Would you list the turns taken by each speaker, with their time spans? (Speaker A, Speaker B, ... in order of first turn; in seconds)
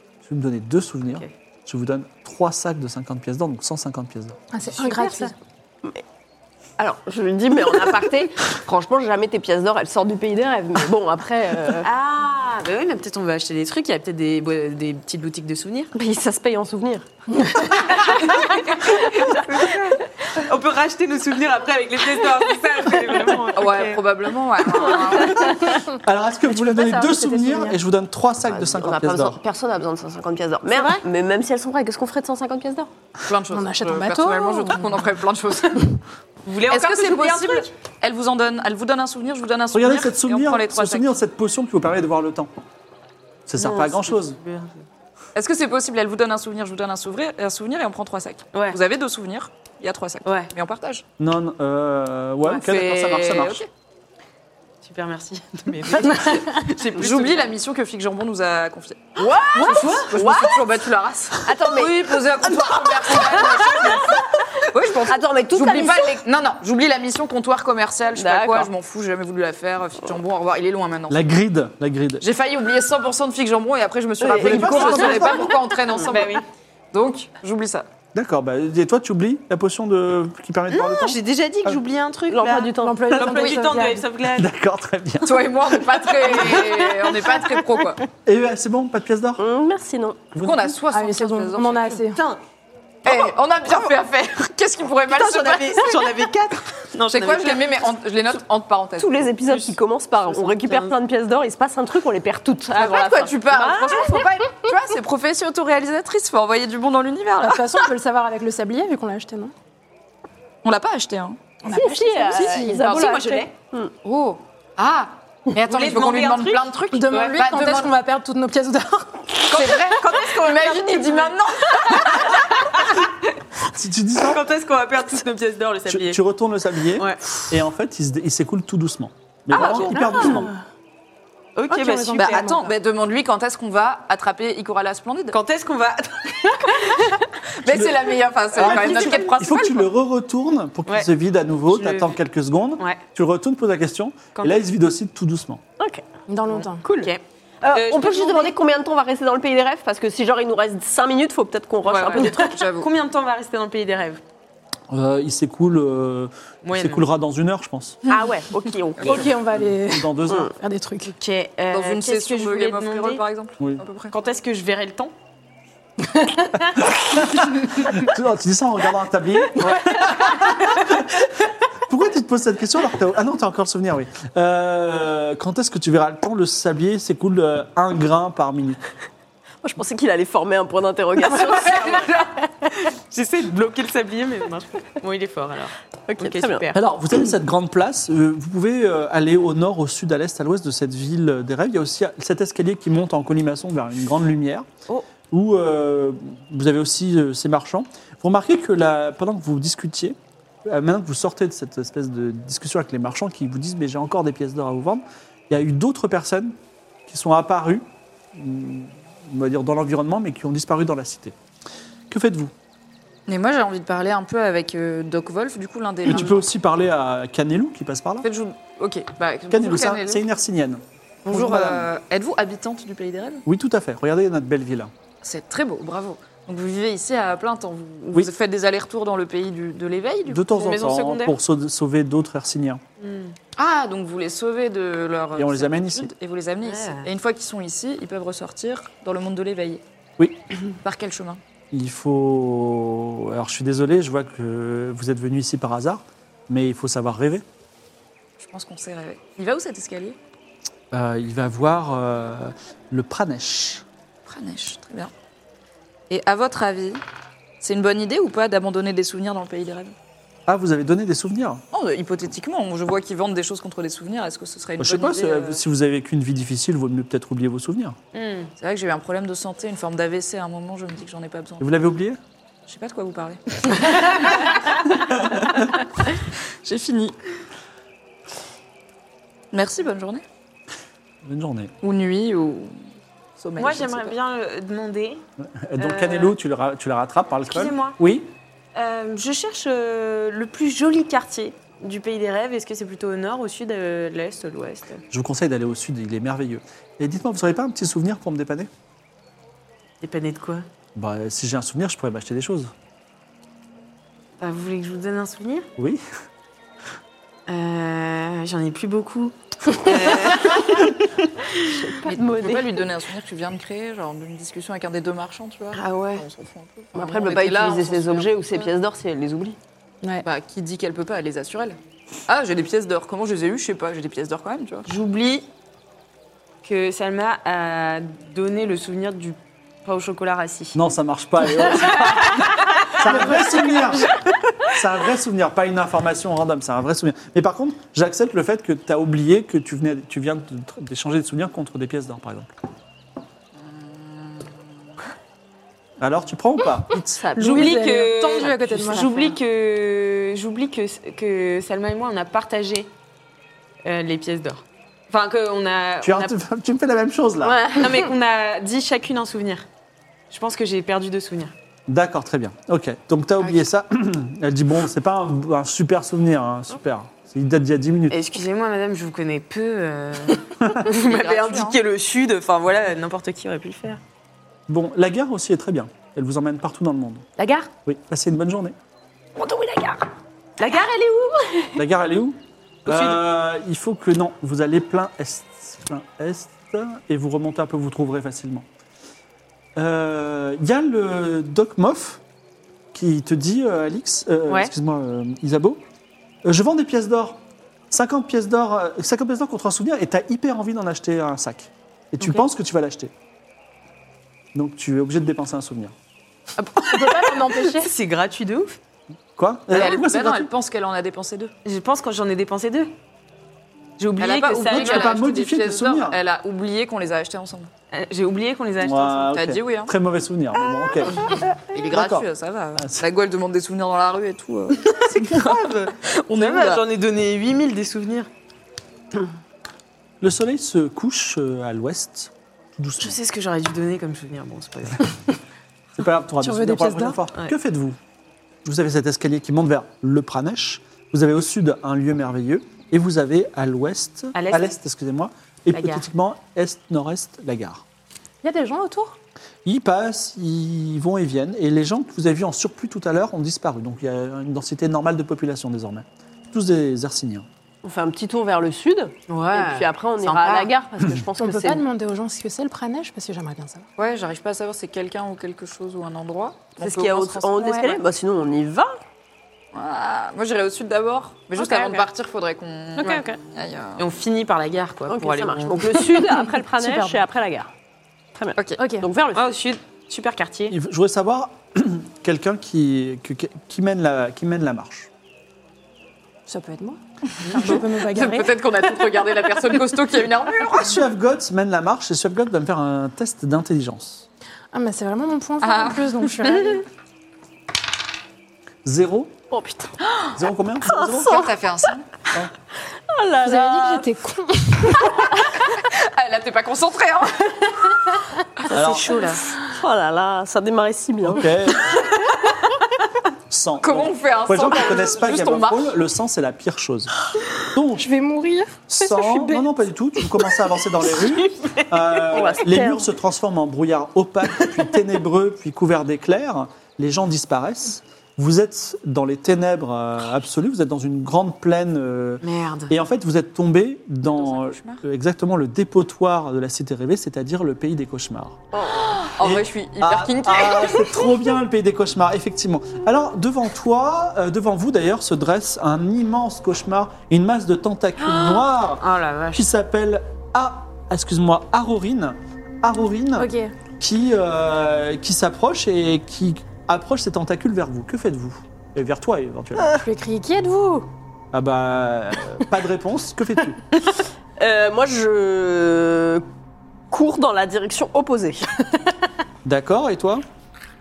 Speaker A: 0.2-4.4, 25.9-29.4, 39.7-42.5, 43.5-44.4, 51.2-53.6, 71.1-72.2, 74.2-75.5, 78.1-81.8, 84.3-85.7, 88.2-89.4, 90.3-90.7, 123.7-124.5, 125.9-130.5, 137.7-145.6, 154.9-158.0, 159.1-160.5, 167.0-171.0, 171.9-178.8, 186.7-194.7, 195.3-206.5, 207.1-211.3, 212.1-212.5, 216.0-218.2, 219.5-221.9, 223.4-224.9, 230.3-232.8, 235.4-236.1, 241.7-247.4, 250.9-253.8, 260.5-261.6, 264.8-268.0, 271.6-272.2, 281.2-281.7, 285.4-288.3, 295.1-298.7, 300.9-302.7, 305.8-306.0, 330.7-334.1, 334.7-342.5, 346.0-347.2, 356.0-357.6, 361.9-368.2, 374.7-377.2, 377.8-378.7, 381.8-388.6, 389.8-392.2, 392.9-395.8, 396.4-403.1, 404.5-405.9, 409.4-410.5, 414.7-416.2, 418.8-421.2, 421.9-423.0, 425.0-425.7, 430.2-433.2, 435.9-438.0, 438.6-447.8, 449.6-457.4, 480.7-485.1, 490.7-494.3, 498.8-499.3, 500.3-501.5, 508.7-509.1, 511.2-512.0, 513.5-517.1, 517.7-518.1, 518.9-538.6, 539.4-559.9, 561.5-563.8, 569.6-570.4
Speaker B: 4.5-5.3, 26.5-27.8, 30.7-31.0, 33.5-34.9, 82.8-84.0, 90.9-92.2, 107.4-109.5, 111.6-112.9, 116.9-119.7, 130.1-130.5, 131.7-132.7, 146.3-146.8, 159.0-161.1, 347.3-349.3, 406.6-407.9, 436.4-437.2, 448.4-449.2, 461.4-463.9, 467.6-467.9, 476.7-477.2, 478.8-479.0, 486.5-487.0, 487.5-488.6, 494.7-496.8, 503.4-505.1, 518.0-519.7, 553.4-553.7, 560.0-561.1
Speaker C: 4.8-5.3, 11.8-15.9, 18.0-24.0, 36.4-37.7, 43.6-44.8, 48.5-48.8, 50.2-50.5, 54.8-57.5, 76.1-76.4, 80.7-84.5, 95.1-97.8, 100.3-100.9, 112.9-113.5, 115.7-117.3, 120.1-123.1, 124.2-126.2, 126.9-127.4, 129.5-130.4, 131.6-132.6, 135.3-137.2, 138.6-139.3, 141.7-142.2, 144.3-144.6, 146.5-147.2, 147.7-148.5, 152.1-154.2, 156.6-157.1, 161.1-163.2, 164.1-165.1, 181.9-182.1, 182.8-186.8, 230.5-231.3, 233.0-233.3, 236.6-237.1, 268.1-268.5, 283.6-285.2, 285.8-286.3, 287.5-288.0, 288.7-295.0, 300.0-300.6, 304.4-305.7, 307.5-310.9, 324.9-325.5, 326.6-330.8, 331.6-333.9, 347.3-352.9, 353.8-356.3, 357.8-359.6, 360.3-361.5, 368.1-374.0, 377.4-377.6, 379.4-379.6, 380.6-381.8, 382.9-383.2, 407.7-408.8, 411.6-412.9, 414.0-415.2, 417.9-419.3, 425.3-428.3, 433.0-435.3, 444.3-444.7, 445.7-446.1, 459.3-460.5, 474.0-476.1, 479.3-480.8, 532.4-532.9, 548.2-549.6
Speaker D: 6.8-11.9, 15.9-17.1, 17.7-19.4, 28.5-32.9, 59.2-60.7, 61.4-66.2, 68.1-68.7, 74.2-76.2, 82.3-83.6, 89.4-90.3, 99.0-104.2, 111.7-113.9, 145.8-146.0, 146.8-152.6, 158.1-159.3, 179.6-182.3, 186.1-186.7, 311.7-312.8, 315.9-316.2, 316.9-319.6, 347.2-347.8, 357.4-358.1, 457.8-461.8, 466.8-469.0, 471.6-472.0, 473.0-473.3, 475.1-477.7, 478.4-479.5, 499.5-500.0, 500.9-501.5, 503.1-504.1, 508.7-512.1, 522.3-523.1, 538.7-539.3, 564.6-566.4, 567.1-568.9
Speaker E: 23.5-25.7, 33.2-36.0, 36.7-41.1, 45.3-51.0, 52.5-53.7, 56.9-71.2, 72.2-77.8, 85.2-88.0, 90.4-92.1, 93.0-96.1, 97.1-99.1, 102.7-107.8, 110.6-111.4, 112.3-113.2, 114.0-117.9, 119.5-122.4, 129.6-130.1, 132.1-135.4, 137.6-139.9, 151.8-152.9, 161.7-164.1, 213.3-216.4, 218.2-220.2, 221.2-223.4, 225.2-230.4, 233.6-239.8, 240.8-241.4, 248.4-250.2, 254.3-255.1, 256.1-257.0, 257.6-259.9, 261.7-265.6, 268.6-271.7, 272.7-274.5, 276.6-277.1, 279.5-280.2, 281.8-282.8, 283.4-284.1, 312.0-318.7, 320.2-324.9, 343.6-344.4, 370.9-371.8, 409.7-411.5, 414.2-417.7, 419.3-419.9, 421.7-426.8, 460.3-460.6, 464.0-468.0, 469.7-474.0, 487.5-491.0, 495.6-496.8, 501.1-502.1, 505.9-507.9, 509.1-509.4, 513.8-515.9, 534.3-535.0, 539.3-541.1